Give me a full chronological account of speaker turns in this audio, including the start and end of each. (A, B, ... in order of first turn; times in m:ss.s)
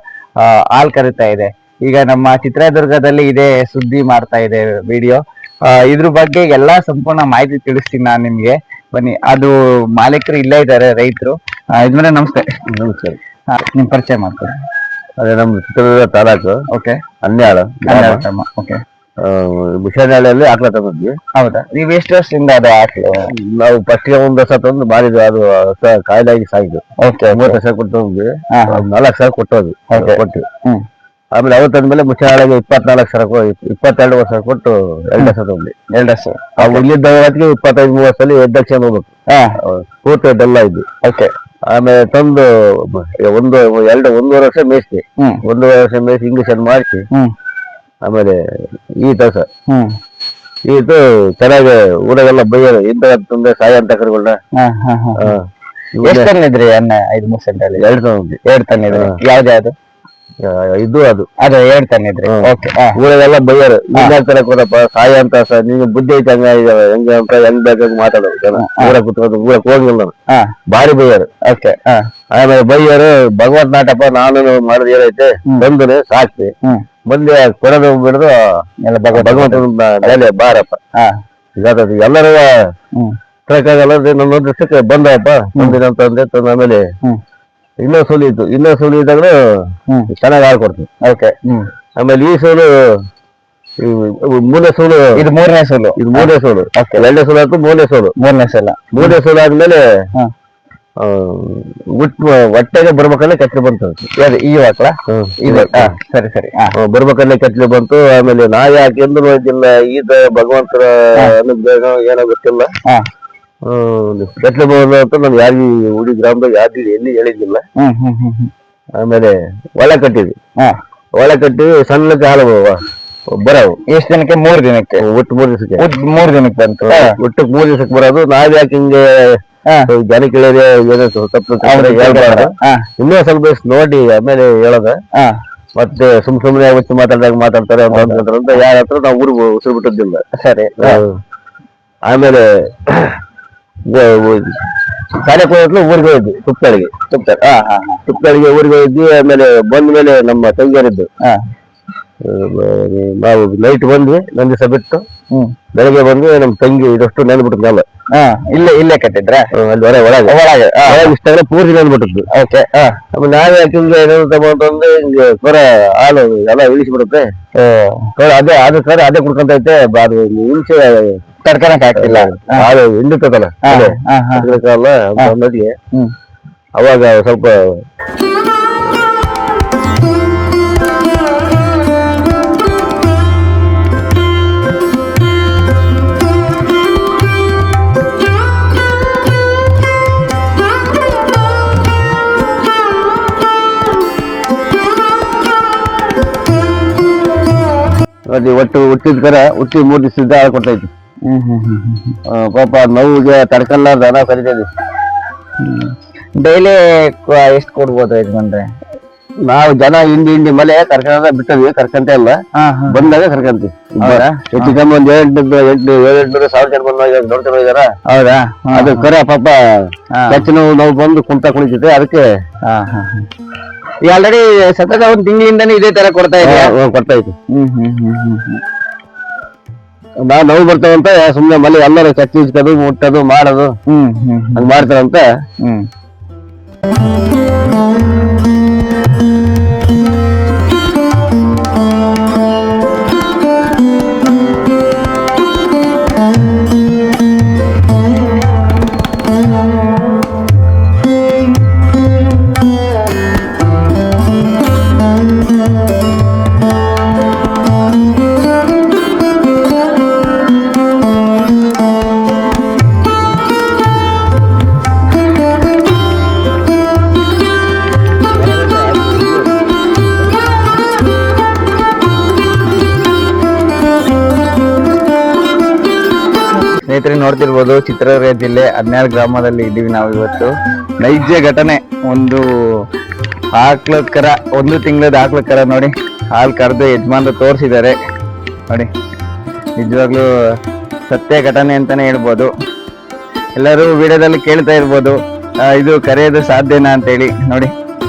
0:00.4-0:12.5 A
0:12.7-0:13.2 B
0:13.5-0:14.5 A
0:15.2-0:16.6 B
0:16.7-0:17.0 A
0:17.2-0:18.2 B
0:17.9-0:18.8 A
0:19.2-0:21.1 B
0:21.4-0:23.3 A
0:23.3-0:30.5 B
0:27.0-0:27.6 A
0:28.5-0:28.8 A
0:29.9-0:30.8 A
0:31.4-0:35.7 B
0:35.9-0:36.8 A
0:36.6-0:39.1 B
0:39.3-0:39.6 A
0:39.6-0:40.8 B
0:41.0-0:41.3 A
0:41.7-0:47.0 B
0:48.0-0:48.4 B
0:49.0-0:49.5 B
0:50.7-0:54.4 B
0:54.6-0:55.4 A
0:55.2-0:56.3 B
0:56.0-0:57.8 A
0:57.8-0:58.4 B
0:58.5-0:59.7 A
1:00.4-1:01.3 B
1:01.4-1:03.0 A
1:02.3-1:10.1 B
1:08.6-1:09.0 A
1:10.7-1:11.3 B
1:11.5-1:12.0 A
1:12.3-1:16.5 B
1:17.1-1:18.5 B
1:18.8-1:20.2 A
1:19.1-1:20.8 B
1:21.6-1:22.6 B
1:23.5-1:26.9 B
1:27.8-1:29.4 B
1:30.1-1:30.9 B
1:31.0-1:31.7 A
1:32.0-1:32.9 B
1:33.8-1:35.2 B
1:35.2-1:37.0 A
1:36.0-1:38.1 B
1:38.2-1:39.2 A
1:38.9-1:39.9 B
1:41.0-1:44.1 B
1:44.2-1:46.8 A
1:45.1-1:45.9 B
1:46.8-1:52.7 B
1:53.6-1:57.6 B
1:57.8-1:58.5 A
1:59.0-2:00.4 B
2:01.2-2:03.8 B
2:03.9-2:05.0 A
2:05.0-2:05.8 B
2:05.8-2:07.2 A
2:06.9-2:15.0 B
2:11.6-2:12.9 A
2:15.8-2:20.2 B
2:17.9-2:18.2 A
2:20.4-2:21.0 A
2:20.8-2:21.2 B
2:22.1-2:23.2 B
2:23.9-2:24.6 B
2:25.2-2:26.9 B
2:27.1-2:28.0 A
2:28.1-2:31.1 B
2:32.2-2:35.0 B
2:35.8-2:37.8 B
2:38.1-2:39.5 A
2:39.6-2:40.4 B
2:40.3-2:41.1 A
2:40.9-2:42.2 B
2:42.3-2:43.0 A
2:43.1-2:47.3 B
2:47.6-2:48.1 A
2:48.2-2:51.2 B
2:51.4-2:52.7 A
2:52.0-2:55.8 B
2:53.6-2:54.6 A
2:56.8-2:57.8 B
3:18.3-3:20.9 B
3:21.3-3:22.2 A
3:22.3-3:24.7 B
3:25.6-3:28.7 A
3:29.4-3:37.9 B
3:32.6-3:33.1 A
3:34.0-3:34.8 A
3:38.1-3:39.1 A
3:38.7-3:39.8 B
3:40.1-3:40.5 A
3:40.3-3:42.3 B
3:42.7-3:43.3 A
3:44.0-3:46.7 A
3:46.4-3:47.4 B
3:47.5-3:48.6 A
3:50.2-3:53.7 B
3:53.9-3:54.7 A
3:54.6-3:55.3 B
3:55.6-3:55.9 A
4:28.3-4:29.7 B
4:36.9-4:42.4 A
4:43.6-4:48.0 A
4:49.8-4:50.3 A
4:51.1-4:52.5 A
4:53.6-4:57.7 A